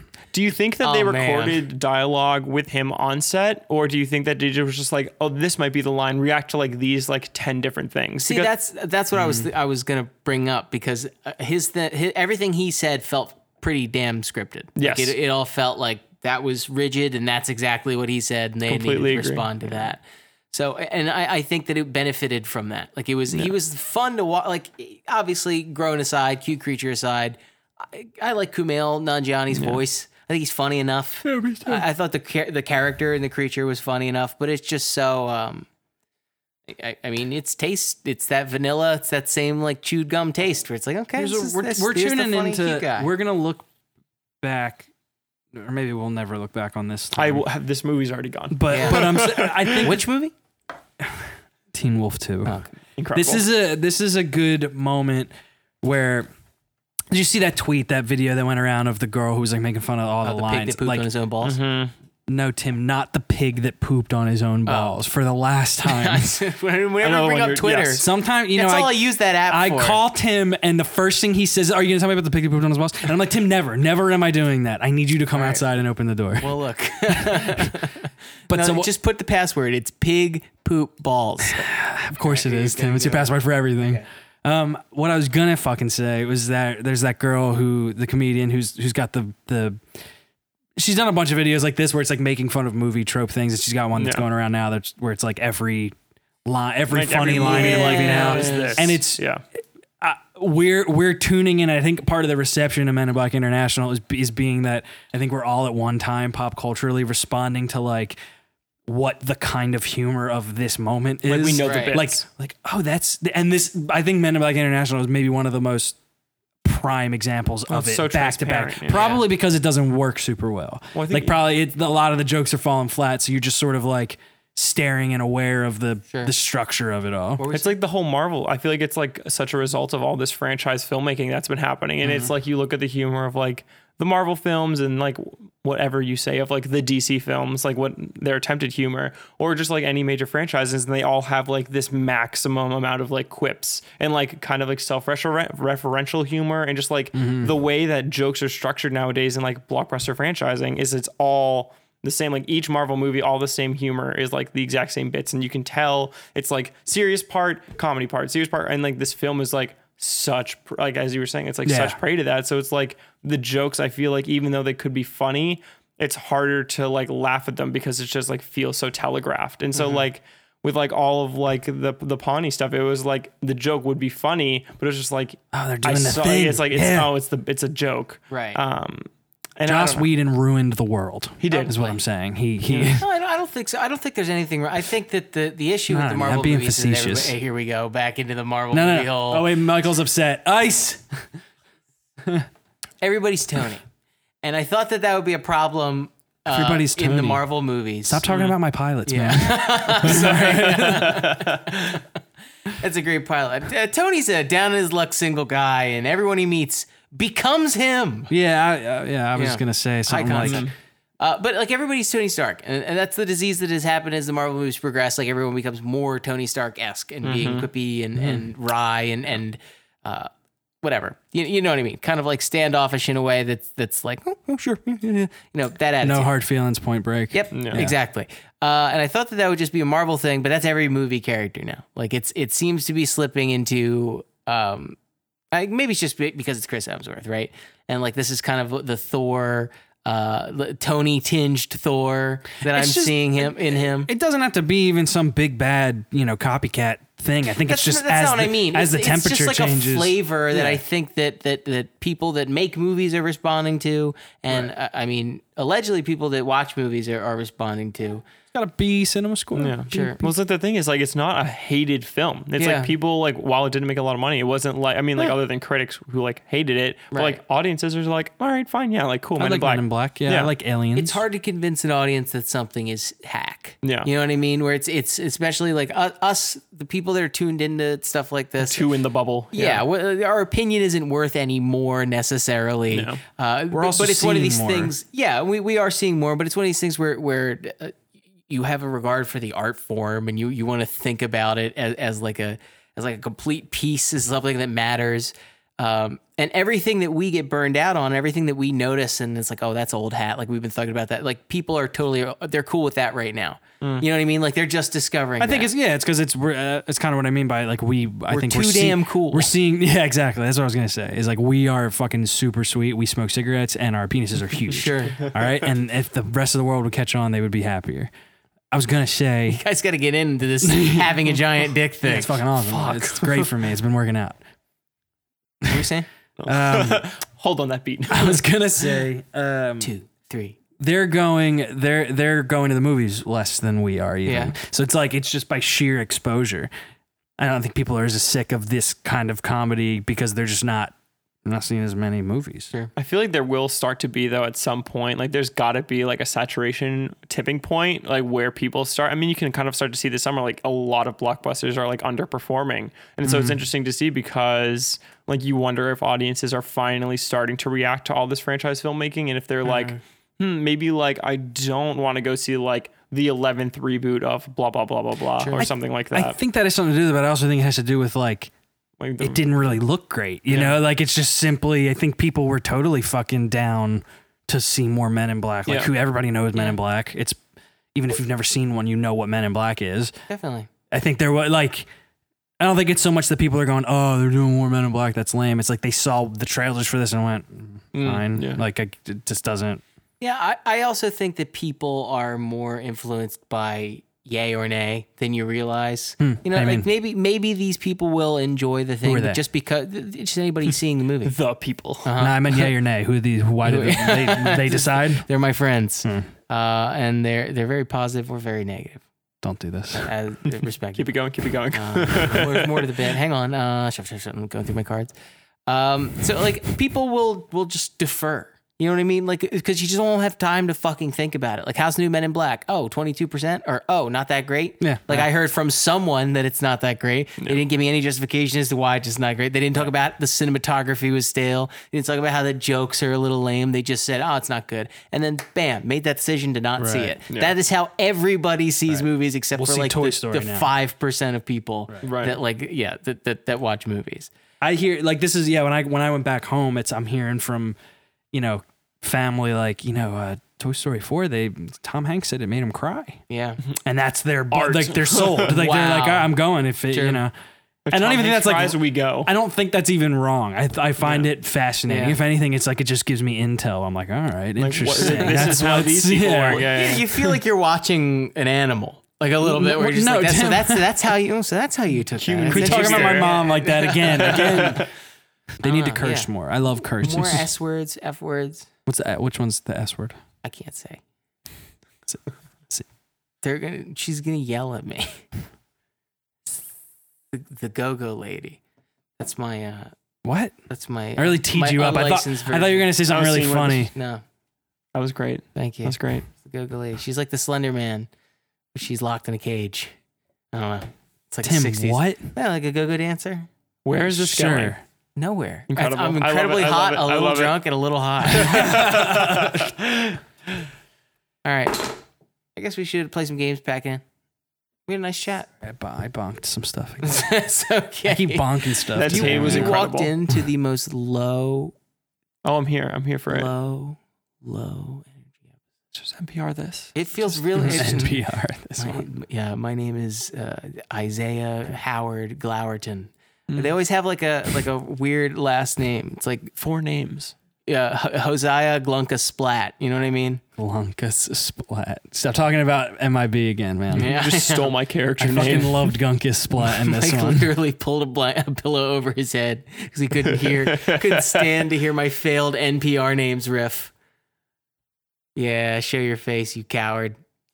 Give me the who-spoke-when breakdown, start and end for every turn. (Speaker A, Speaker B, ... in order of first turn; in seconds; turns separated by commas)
Speaker A: 0.3-8.5, Speaker B: 0.8-1.6, Speaker B: 8.2-35.7, Speaker A: 14.8-15.1, Speaker A: 18.7-19.5, Speaker A: 29.5-29.8, Speaker C: 31.2-31.8, Speaker B: 36.7-43.1, Speaker C: 41.2-43.7, Speaker C: 44.4-44.9, Speaker C: 45.5-47.4, Speaker A: 47.1-49.9, Speaker C: 48.5-50.0, Speaker B: 48.7-49.2, Speaker B: 49.8-50.3, Speaker C: 51.0-52.6, Speaker B: 52.4-52.7, Speaker A: 53.0-53.5, Speaker C: 53.1-56.3, Speaker C: 57.1-61.0, Speaker B: 60.2-61.6, Speaker A: 61.4-61.9, Speaker C: 62.3-66.3, Speaker B: 64.7-65.0, Speaker B: 65.8-70.0, Speaker A: 67.0-68.0, Speaker C: 68.0-76.5, Speaker B: 75.3-75.6, Speaker B: 76.4-84.0, Speaker C: 77.1-77.8, Speaker C: 78.5-78.9, Speaker C: 81.5-89.8, Speaker C: 90.8-99.2, Speaker A: 94.0-94.2, Speaker A: 96.9-99.4, Speaker B: 97.3-98.9, Speaker C: 100.0-108.2, Speaker C: 108.9-116.0, Speaker A: 111.2-112.2, Speaker B: 111.6-112.0, Speaker C: 116.6-127.4, Speaker A: 117.7-119.2, Speaker B: 118.9-119.2, Speaker A: 120.9-121.3, Speaker B: 127.4-127.8, Speaker A: 127.5-180.1, Speaker B: 132.0-132.3, Speaker C: 147.1-147.5, Speaker C: 161.6-162.0, Speaker B: 169.7-170.0, Speaker C: 175.5-177.1, Speaker B: 178.3-178.6, Speaker C: 179.7-183.1, Speaker A: 181.4-181.8, Speaker B: 181.5-182.0, Speaker A: 182.7-183.0, Speaker B: 182.8-189.5, Speaker C: 185.9-187.3, Speaker C: 188.7-191.2, Speaker B: 193.0-193.8, Speaker B: 194.4-198.2, Speaker C: 196.5-197.4, Speaker C: 198.0-201.2, Speaker A: 198.3-198.6, Speaker B: 199.1-202.0, Speaker A: 200.1-201.6, Speaker B: 202.7-208.3, Speaker C: 208.3-210.7, Speaker B: 209.3-220.3, Speaker A: 210.4-210.7, Speaker A: 217.2-217.7, Speaker C: 218.2-218.4, Speaker B: 220.8-226.3, Speaker C: 226.0-228.0, Speaker B: 227.3-235.0, Speaker A: 227.5-227.8, Speaker B: 235.5-244.1, Speaker C: 242.6-250.8, Speaker B: 247.6-258.2, Speaker C: 258.5-260.2, Speaker A: 259.5-270.5, Speaker B: 259.9-260.2, Speaker B: 262.6-262.9, Speaker B: 267.1-267.4, Speaker C: 269.4-271.2, Speaker B: 270.9-278.9, Speaker A: 273.8-274.1, Speaker A: 278.6-279.8, Speaker B: 279.5-288.0, Speaker A: 282.9-283.2, Speaker C: 283.7-284.9, Speaker B: 288.5-305.7, Speaker A: 303.8-304.1, Speaker C: 305.4-318.1, Speaker B: 308.3-309.5, Speaker B: 314.7-315.4, Speaker C: 318.7-319.6, Speaker B: 319.5-322.4, Speaker C: 320.6-321.3, Speaker C: 322.0-324.4, Speaker A: 322.7-323.3, Speaker B: 325.6-326.1, Speaker A: 326.4-328.4, Speaker C: 326.5-327.1, Speaker C: 328.1-329.9, Speaker B: 329.8-330.6, Speaker C: 330.8-336.7, Speaker B: 334.2-334.5, Speaker C: 337.4-340.9, Speaker C: 341.4-342.7, Speaker A: 342.9-366.4, Speaker C: 353.2-353.6, Speaker B: 359.6-360.0, Speaker B: 365.4-365.7, Speaker C: 365.6-368.5, Speaker A: 369.0-369.4, Speaker C: 369.2-377.4, Speaker A: 370.5-370.8, Speaker C: 377.9-380.1, Speaker B: 380.3-380.7, Speaker C: 380.9-381.9, Speaker C: 382.6-389.8, Speaker A: 387.9-388.6, Speaker B: 390.2-401.3, Speaker C: 396.2-396.9, Speaker C: 399.0-399.4, Speaker A: 401.2-402.1, Speaker B: 402.0-402.7, Speaker C: 402.2-405.3, Speaker B: 403.6-409.0, Speaker C: 409.4-410.1, Speaker B: 410.0-411.1, Speaker A: 411.0-412.9, Speaker B: 411.7-415.1, Speaker B: 415.7-444.3, Speaker C: 424.8-425.3, Speaker C: 436.8-437.1, Speaker C: 439.5-440.7, Speaker A: 442.0-442.4, Speaker C: 444.6-447.8, Speaker C: 448.3-453.2, Speaker B: 453.3-453.6, Speaker C: 453.8-457.3, Speaker A: 454.5-455.6, Speaker B: 455.5-456.3, Speaker B: 456.9-457.2, Speaker A: 457.9-459.3, Speaker C: 457.9-467.2, Speaker A: 461.0-461.3, Speaker B: 461.9-462.2, Speaker A: 464.6-467.1, Speaker B: 465.0-465.5, Speaker B: 466.5-474.8, Speaker C: 469.4-470.9, Speaker A: 472.1-473.4, Speaker C: 472.4-474.9, Speaker A: 474.0-474.9, Speaker C: 475.6-477.5, Speaker B: 475.6-476.3, Speaker B: 477.0-478.7, Speaker C: 478.9-480.2, Speaker B: 480.4-481.0, Speaker C: 482.1-482.9, Speaker B: 483.4-485.2, Speaker B: 487.3-488.6, Speaker B: 489.2-489.9, Speaker C: 490.2-490.5, Speaker B: 490.7-493.0, Speaker C: 491.1-493.9, Speaker A: 493.1-493.9, Speaker B: 493.9-494.2, Speaker A: 494.9-496.2, Speaker B: 495.6-498.1, Speaker B: 498.7-499.9, Speaker B: 500.5-503.5, Speaker C: 501.4-502.3, Speaker A: 503.8-504.8, Speaker C: 503.9-504.8, Speaker B: 505.1-509.0, Speaker A: 505.7-507.6, Speaker A: 508.3-510.2, Speaker C: 508.4-509.6, Speaker B: 511.4-512.0, Speaker B: 512.5-514.0, Speaker B: 514.9-515.5, Speaker C: 515.6-517.3, Speaker B: 517.0-521.7, Speaker C: 518.0-520.4, Speaker A: 518.9-520.1, Speaker A: 522.4-523.5, Speaker B: 523.3-525.3, Speaker A: 525.9-526.9, Speaker B: 526.9-528.2, Speaker A: 527.5-527.8, Speaker C: 527.6-529.0, Speaker B: 528.8-536.5, Speaker A: 533.5-533.7, Speaker A: 536.6-537.3, Speaker B: 537.6-540.4, Speaker C: 540.6-544.2, Speaker B: 543.9-544.7, Speaker A: 544.0-545.9, Speaker C: 545.2-547.5, Speaker B: 546.6-553.9, Speaker A: 550.4-551.6, Speaker B: 555.4-557.1